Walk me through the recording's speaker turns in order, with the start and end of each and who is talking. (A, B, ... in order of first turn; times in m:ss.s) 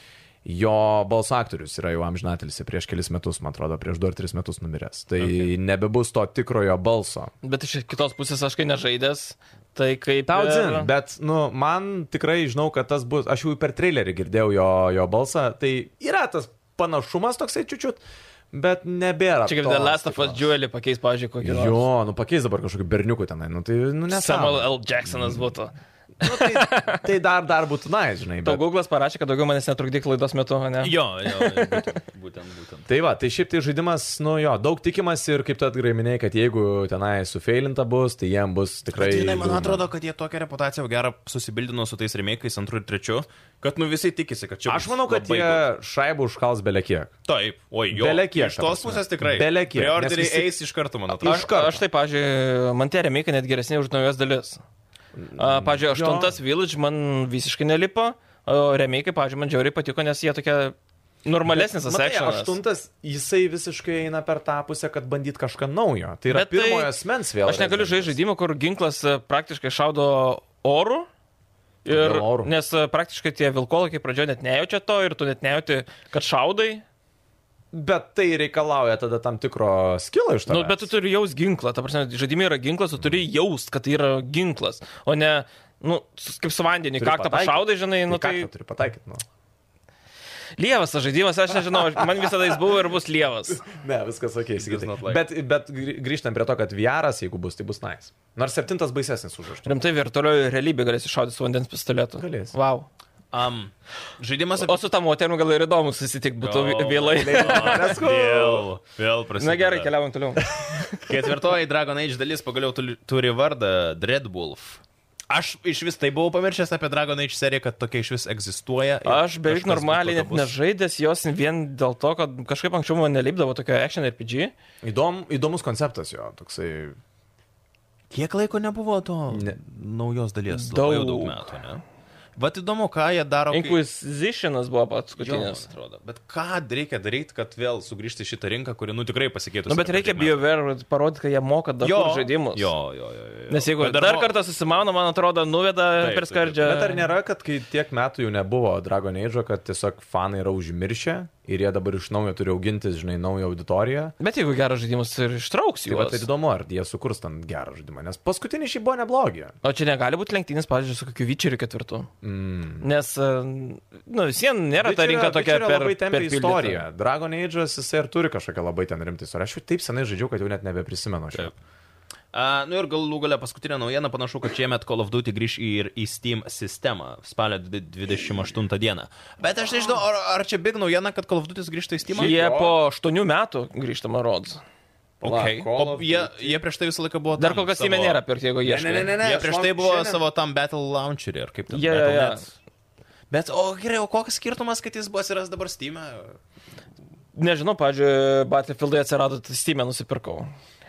0:00.4-0:07.3 A
0:05.2-0:05.5 B
0:07.4-0:10.9 C
0:10.3-0:20.5 A
0:19.4-0:21.8 C
0:21.4-0:25.4 A
0:24.1-0:27.0 C
0:26.2-0:28.6 A
0:28.4-0:31.9 C
0:30.8-0:32.9 B
0:32.9-0:39.9 A
0:38.9-0:45.6 B
0:44.7-0:47.1 A
0:47.3-0:51.5 B
0:47.9-0:50.5 A
0:51.1-0:51.8 A
0:51.2-0:54.6 C
0:55.2-0:56.4 A
0:55.4-1:02.5 C
1:01.4-1:08.2 A
1:06.3-1:11.1 C
1:11.8-1:16.8 C
1:11.9-1:12.5 A
1:17.7-1:20.9 A
1:20.5-1:28.5 C
1:27.0-1:29.2 A
1:30.6-1:33.6 C
1:33.5-1:39.7 A
1:34.6-1:35.2 B
1:39.6-1:42.9 C
1:42.2-1:42.5 A
1:43.3-1:44.8 B
1:44.6-1:48.0 C
1:46.4-1:49.9 B
1:47.2-1:48.7 A
1:49.4-1:51.0 C
1:51.0-2:00.5 B
1:59.0-2:04.5 C
2:04.8-2:07.0 A
2:08.1-2:11.8 B
2:09.3-2:09.6 A
2:10.5-2:11.5 C
2:12.4-2:13.8 B
2:13.5-2:15.6 C
2:15.2-2:20.4 B
2:19.7-2:22.7 C
2:21.8-2:24.3 B
2:23.5-2:27.1 C
2:26.0-2:26.6 B
2:26.6-2:34.1 A
2:34.2-2:36.2 C
2:35.9-2:39.5 A
2:39.6-2:42.1 C
2:42.2-2:42.8 A
2:42.8-2:46.8 C
2:44.8-2:51.5 A
2:52.3-3:02.3 B
3:02.1-3:02.8 A
3:02.2-3:04.6 C
3:05.2-3:06.6 A
3:05.2-3:08.2 B
3:07.4-3:09.1 C
3:08.6-3:10.2 A
3:09.2-3:12.5 B
3:11.7-3:12.4 C
3:13.3-3:16.4 B
3:17.4-3:20.5 C